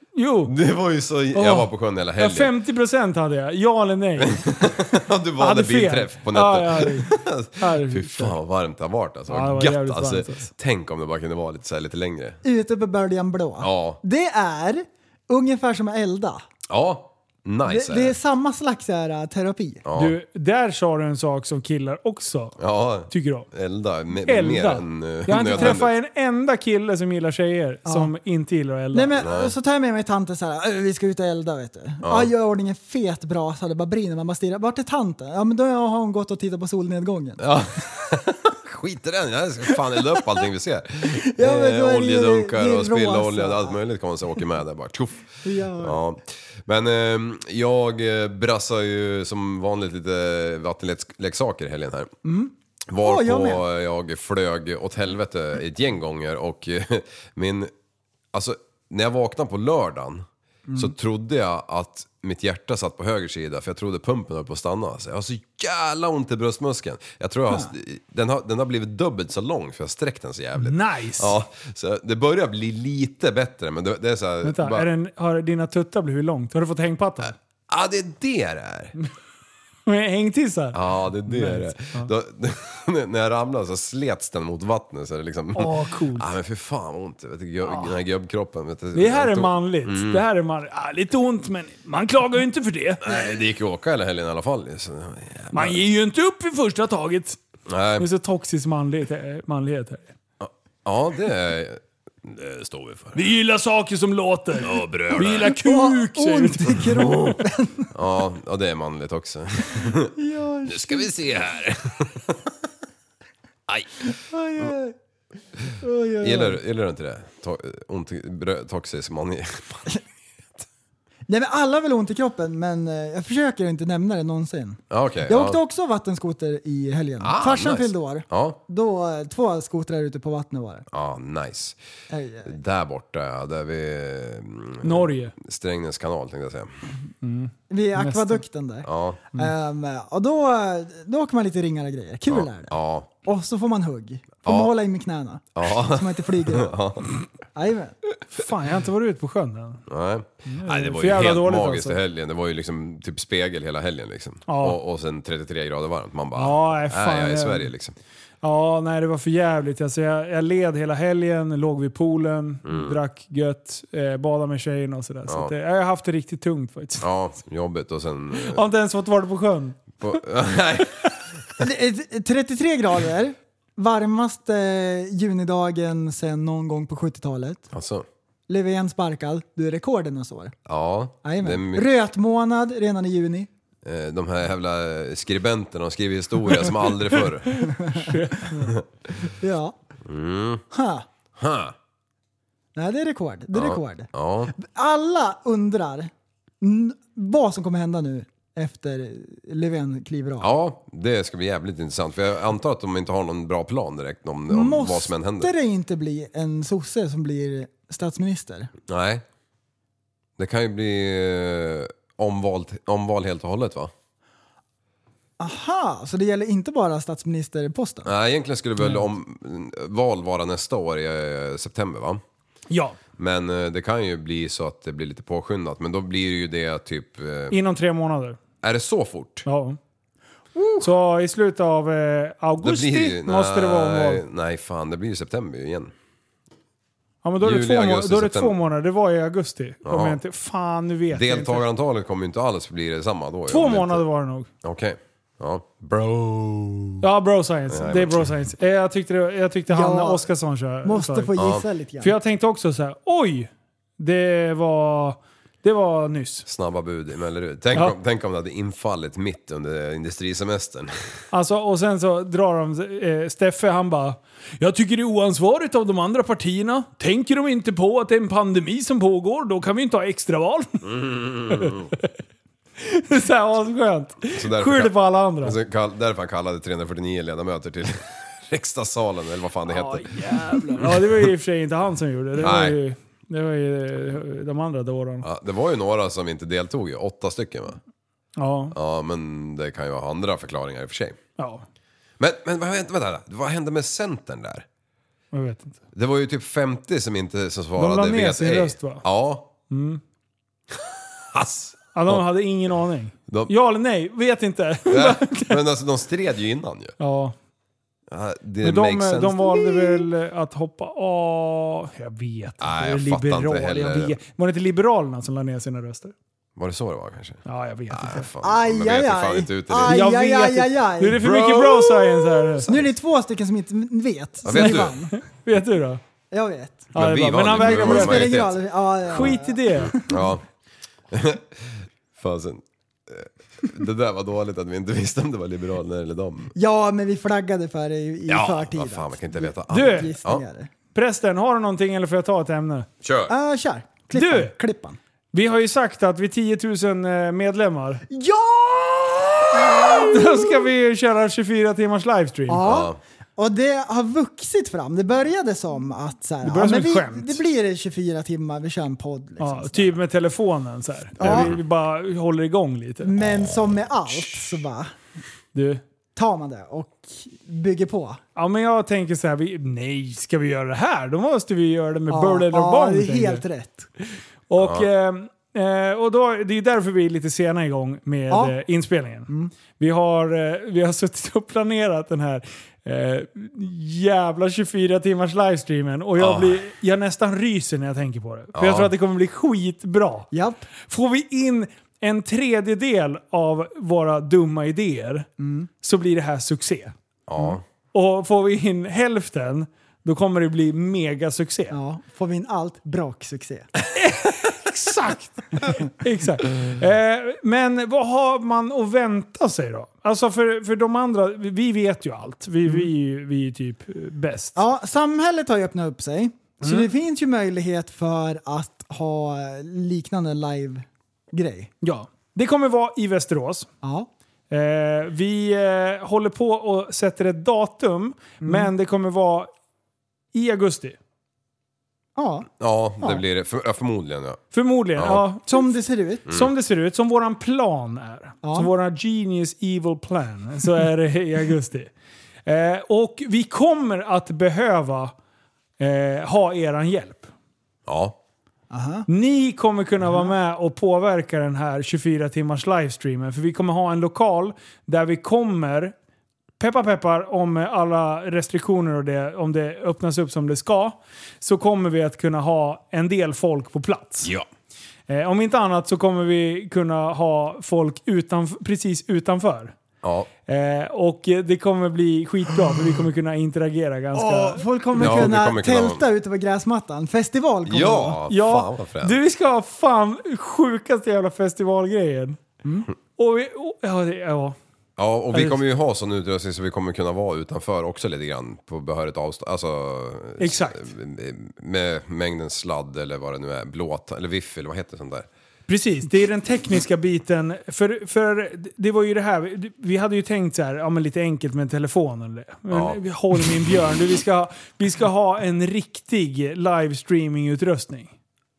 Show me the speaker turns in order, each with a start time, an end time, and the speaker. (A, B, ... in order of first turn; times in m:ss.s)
0:00.2-0:00.5 A
0:00.4-0:02.5 B
0:01.3-0:04.5 A
0:04.2-0:12.4 B
0:05.4-0:08.4 A
0:09.3-0:10.5 A
0:12.4-0:16.4 C
0:13.6-0:14.0 B
0:16.7-0:18.2 B
0:17.7-0:19.8 C
0:19.8-0:20.2 B
0:20.0-0:22.6 A
0:22.6-0:25.9 B
0:23.1-0:23.5 A
0:24.2-0:29.1 A
0:25.5-0:25.8 C
0:27.9-0:28.1 C
0:28.9-0:37.4 C
0:29.2-0:29.6 B
0:32.0-0:32.3 B
0:37.4-0:52.2 B
0:41.2-0:43.8 C
0:45.4-0:46.0 C
0:52.2-0:53.6 C
0:52.9-0:57.7 B
0:58.3-1:14.9 B
1:10.6-1:11.4 A
1:14.4-1:17.4 A
1:17.7-1:18.9 B
1:19.9-1:22.1 A
1:20.7-1:30.2 B
1:25.6-1:26.3 A
1:28.9-1:33.0 A
1:33.0-1:35.8 B
1:35.5-1:37.4 A
1:37.7-1:38.1 B
1:38.0-1:40.1 A
1:40.4-1:43.2 B
1:43.1-1:47.2 A
1:44.6-1:45.6 B
1:45.4-1:47.9 C
1:46.9-1:47.2 B
1:47.9-1:50.1 B
1:50.2-1:51.1 C
1:50.6-1:52.5 B
1:53.7-1:54.0 B
1:54.3-1:55.0 C
1:55.8-1:56.6 C
1:56.2-2:00.0 B
2:01.3-2:10.9 C
2:04.9-2:05.6 B
2:07.2-2:08.6 B
2:10.9-2:11.8 B
2:12.1-2:12.6 C
2:12.4-2:16.7 B
2:14.8-2:15.4 A
2:17.2-2:18.4 A
2:17.7-2:26.8 C
2:18.8-2:19.2 B
2:22.3-2:23.1 B
2:24.4-2:24.7 B
2:25.6-2:27.1 B
2:27.5-2:28.0 C
2:28.3-2:29.8 A
2:29.9-2:38.0 B
2:30.5-2:32.0 A
2:34.5-2:34.8 A
2:36.4-2:37.7 A
2:38.4-2:47.1 A
2:42.6-2:43.0 B
2:45.3-2:45.5 B
2:47.0-2:48.6 B
2:48.4-2:49.9 A
2:50.0-2:51.2 B
2:51.6-2:57.7 C
2:57.7-2:58.1 B
2:58.5-3:00.6 C
3:00.7-3:01.9 B
3:01.2-3:03.5 C
3:03.8-3:07.7 B
3:07.1-3:08.8 A
3:07.6-3:08.4 C
3:09.2-3:09.8 C
3:10.0-3:10.6 B
3:10.7-3:11.0 C
3:11.4-3:11.8 B
3:12.8-3:20.5 C
3:13.5-3:14.5 B
3:20.4-3:25.5 B
3:24.5-3:28.7 C
3:28.9-3:29.2 B
3:30.4-3:33.9 B
3:35.4-3:38.1 C
3:38.0-3:42.2 B
3:38.8-3:39.1 A
3:42.7-3:43.0 A
3:43.2-3:47.6 B
3:47.5-3:48.4 A
3:48.6-3:49.5 B
3:49.5-3:49.8 A
3:50.6-3:50.9 C
3:50.8-3:54.2 A
3:52.6-3:55.9 B
3:57.2-4:01.6 A
3:57.4-3:58.6 B
3:59.8-4:00.2 B
4:01.1-4:04.0 B
4:03.5-4:04.5 A
4:04.6-4:07.0 B
4:07.0-4:11.3 A
4:07.7-4:08.3 B
4:09.7-4:10.3 C
4:10.8-4:12.2 C
4:11.4-4:11.7 B
4:12.0-4:16.5 A
4:16.5-4:20.9 B
4:21.3-4:30.9 A
4:30.8-4:31.9 B
4:31.5-4:32.1 A
4:32.8-4:35.6 A
4:34.3-4:41.3 B
4:39.7-4:45.3 A
4:42.4-4:42.8 B
4:45.2-4:47.8 B
4:48.4-4:48.8 A
4:48.7-4:51.2 B
4:51.4-4:51.6 A
4:52.2-4:54.7 B
4:55.3-4:55.8 A
4:55.9-4:59.5 B
4:57.8-4:59.0 A
4:59.7-5:00.0 A
5:01.3-5:02.2 B
5:01.9-5:05.6 A
5:03.3-5:03.5 B
5:04.9-5:07.0 B
5:07.0-5:07.4 A
5:08.1-5:09.8 B
5:08.6-5:16.1 A
5:12.6-5:14.2 B
5:16.6-5:20.0 B
5:17.5-5:18.3 A
5:18.4-5:21.2 C
5:19.9-5:22.7 A
5:21.2-5:22.9 B
5:22.7-5:25.1 C
5:24.4-5:25.0 B
5:24.5-5:26.0 A
5:26.3-5:26.9 C
5:26.9-5:28.4 A
5:27.0-5:30.4 B
5:27.6-5:30.3 C
5:29.1-5:30.0 A
5:31.1-5:36.5 B
5:36.6-5:40.7 C
5:38.3-5:40.4 B
5:39.7-5:40.1 A
5:40.9-5:42.9 A
5:43.0-5:43.3 B
5:43.3-5:45.0 C
5:44.1-5:44.5 A
5:45.3-5:48.0 A
5:48.1-5:50.7 C
5:50.0-5:52.6 A
5:52.5-6:00.0 C
5:52.6-5:53.0 B
5:56.4-5:57.4 A
5:59.4-6:03.1 A
6:01.2-6:01.6 C
6:01.2-6:01.6 B
6:03.0-6:04.9 C
6:05.5-6:05.8 A
6:06.2-6:08.2 C
6:08.4-6:13.4 A
6:12.1-6:13.9 C
6:14.0-6:30.3 A
6:14.6-6:14.9 B
6:18.3-6:18.6 C
6:19.3-6:19.5 C
6:26.2-6:26.6 B
6:28.6-6:28.9 B
6:30.3-6:30.7 C
6:30.9-6:35.3 A
6:35.4-6:35.7 C
6:35.8-6:36.9 A
6:37.3-6:37.6 B
6:37.9-6:41.8 A
6:41.7-6:43.7 C
6:44.0-6:54.6 A
6:54.6-7:01.7 C
6:56.6-6:56.9 A
7:01.8-7:03.7 A
7:03.8-7:04.1 C
7:04.5-7:09.5 A
7:08.4-7:08.7 C
7:10.3-7:11.0 A
7:12.2-7:12.5 C
7:12.6-7:14.4 B
7:14.5-7:15.7 A
7:15.0-7:15.3 B
7:15.5-7:16.3 C
7:16.3-7:21.9 A
7:18.4-7:18.7 C
7:22.5-7:25.1 A
7:25.8-7:27.3 A
7:27.9-7:28.2 B
7:28.7-7:29.1 C
7:29.1-7:35.9 A
7:36.6-7:44.3 A
7:44.2-7:44.5 B
7:45.1-7:49.7 A
7:50.0-7:50.3 B
7:50.5-7:55.3 A
7:54.1-7:58.2 C
7:55.0-7:56.0 B
7:57.7-7:59.2 B
7:58.3-8:02.4 A
8:03.2-8:04.6 A
8:05.0-8:15.3 B
8:05.3-8:05.6 A
8:10.4-8:10.9 A
8:15.7-8:28.1 A
8:22.7-8:23.0 B